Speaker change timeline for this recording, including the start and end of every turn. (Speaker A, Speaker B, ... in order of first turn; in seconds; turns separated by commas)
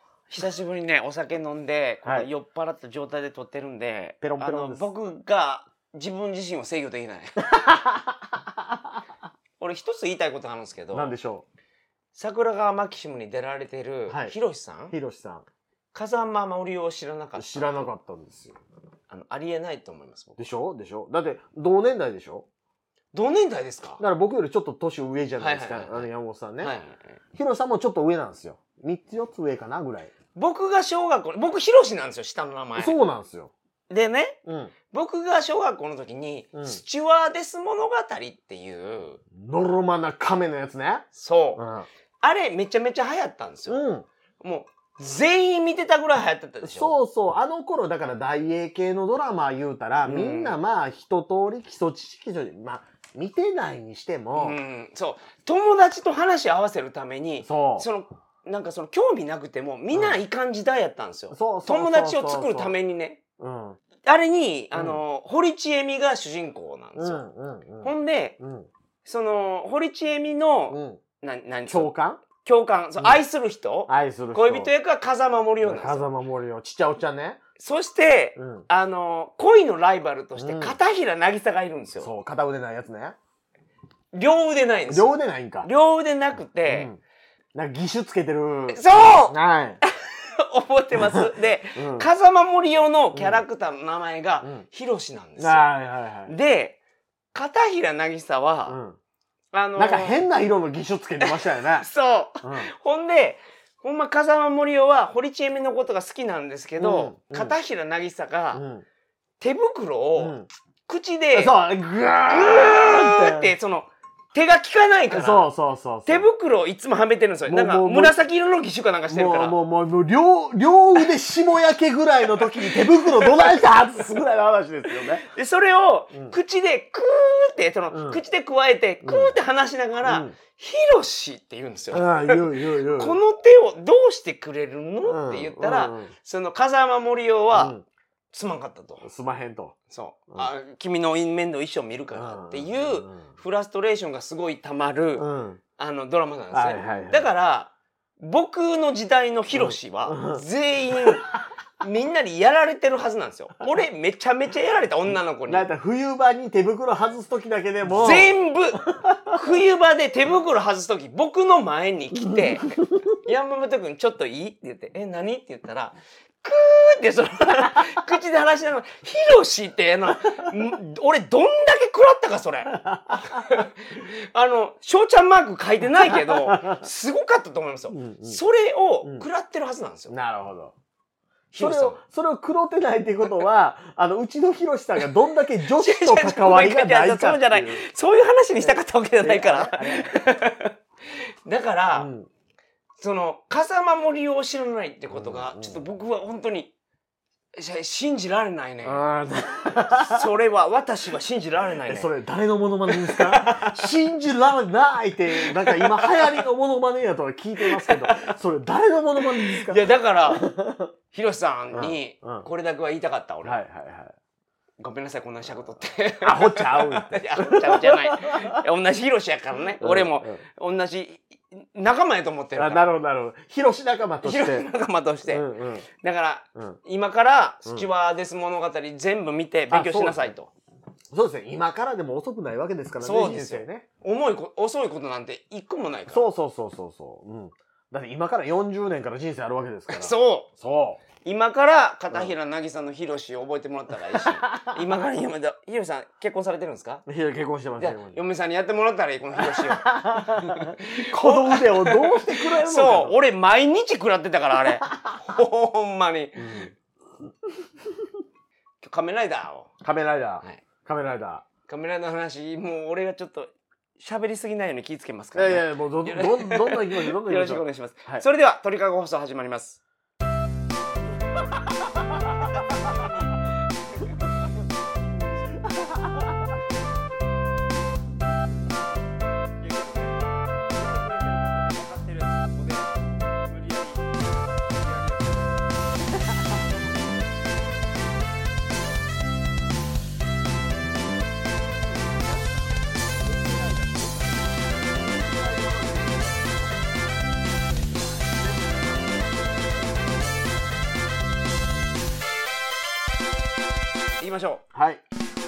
Speaker A: 0.3-7.4, Speaker B: 4.2-4.9, Speaker B: 7.4-9.0, Speaker A: 9.6-11.1, Speaker B: 10.9-11.4, Speaker A: 12.1-14.9, Speaker B: 14.1-14.3, Speaker B: 14.9-15.5, Speaker A: 15.9-17.9, Speaker B: 17.4-18.6, Speaker A: 19.1-20.4, Speaker B: 20.4-22.4, Speaker A: 23.1-24.0, Speaker B: 24.0-26.7, Speaker A: 25.4-26.1, Speaker A: 26.6-27.2, Speaker B: 27.4-30.1, Speaker A: 30.4-33.0, Speaker B: 32.8-33.5, Speaker A: 33.9-34.4, Speaker B: 34.5-34.7, Speaker A: 34.9-39.2, Speaker B: 36.5-36.8, Speaker B: 39.3-41.9, Speaker A: 41.1-41.6, Speaker A: 42.2-43.9, Speaker B: 43.7-44.1, Speaker A: 44.4-47.0, Speaker B: 46.6-54.6, Speaker A: 50.0-50.6, Speaker A: 54.4-63.2, Speaker B: 57.4-57.9, Speaker B: 59.9-60.2, Speaker B: 61.3-62.8, Speaker B: 63.4-63.8, Speaker A: 64.0-67.2, Speaker B: 64.7-65.0, Speaker B: 67.0-68.7, Speaker A: 67.8-68.4, Speaker A: 69.0-76.1, Speaker B: 70.7-71.0, Speaker B: 71.7-72.2, Speaker B: 73.9-74.7, Speaker B: 75.6-77.4, Speaker A: 77.6-82.1, Speaker B: 78.4-78.7, Speaker B: 80.4-80.8, Speaker B: 82.0-83.2, Speaker A: 84.1-86.9, Speaker B: 84.9-85.7, Speaker B: 86.7-87.0, Speaker B: 87.5-89.8, Speaker A: 88.7-95.7, Speaker B: 91.8-92.1, Speaker B: 93.1-93.4, Speaker B: 95.4-96.3, Speaker A: 96.3-96.8, Speaker A: 97.3-98.8, Speaker B: 98.7-99.0, Speaker A: 99.5-100.2, Speaker B: 99.8-101.9, Speaker A: 101.2-108.6, Speaker B: 102.4-102.7, Speaker B: 106.8-107.6, Speaker B: 108.5-108.8, Speaker A: 109.4-110.4, Speaker B: 110.2-110.5, Speaker A: 110.9-111.6, Speaker B: 111.3-113.5, Speaker A: 112.3-115.5, Speaker B: 115.1-116.3, Speaker A: 116.1-119.5, Speaker B: 117.5-118.2, Speaker B: 119.1-125.3, Speaker A: 122.3-123.7, Speaker A: 125.2-137.8, Speaker B: 127.9-128.2, Speaker B: 129.0-129.3, Speaker B: 130.0-130.3, Speaker B: 131.9-133.2, Speaker B: 135.1-136.1, Speaker B: 137.5-137.8, Speaker A: 138.3-139.1, Speaker B: 139.0-139.8, Speaker A: 139.9-151.3, Speaker B: 142.1-143.3, Speaker B: 145.2-145.6, Speaker B: 146.5-147.3, Speaker B: 149.5-150.4, Speaker B: 150.9-151.3, Speaker A: 151.8-155.7, Speaker B: 155.5-159.4, Speaker A: 157.8-180.1, Speaker B: 162.3-163.0, Speaker B: 172.7-173.6, Speaker B: 176.0-176.8, Speaker B: 177.9-178.4, Speaker B: 180.1-180.7, Speaker A: 181.5-182.0, Speaker B: 181.6-187.8, Speaker A: 185.7-190.8, Speaker B: 188.6-190.3, Speaker A: 191.5-192.1, Speaker B: 191.9-192.3, Speaker A: 193.0-196.7, Speaker B: 195.1-195.8, Speaker A: 197.6-199.0, Speaker B: 198.8-200.3, Speaker A: 199.9-202.1, Speaker B: 201.8-210.9, Speaker A: 202.9-203.7, Speaker A: 205.3-206.4, Speaker A: 207.6-208.3, Speaker A: 209.3-210.5, Speaker A: 211.1-213.6, Speaker B: 211.7-212.5, Speaker B: 213.4-214.1, Speaker A: 214.8-222.9, Speaker B: 216.2-218.6, Speaker B: 219.8-220.4, Speaker B: 222.6-224.7, Speaker A: 224.2-225.5, Speaker B: 225.3-225.9, Speaker A: 226.0-230.5, Speaker B: 229.7-230.3, Speaker B: 231.1-233.8, Speaker A: 233.0-236.2, Speaker B: 236.1-241.0, Speaker A: 239.9-240.5, Speaker A: 241.2-247.1, Speaker B: 244.1-244.8, Speaker B: 247.1-248.2, Speaker A: 247.8-256.7, Speaker B: 249.4-253.2, Speaker B: 256.4-256.7, Speaker A: 258.8-259.7, Speaker B: 259.8-261.4, Speaker A: 261.7-269.8, Speaker B: 265.4-268.2, Speaker B: 271.8-273.0, Speaker A: 272.5-275.7, Speaker B: 275.6-276.4, Speaker A: 279.6-285.6, Speaker A: 293.2-294.8, Speaker B: 294.9-296.5, Speaker A: 297.8-298.3, Speaker B: 298.3-300.0, Speaker A: 304.2-304.6, Speaker B: 304.7-305.0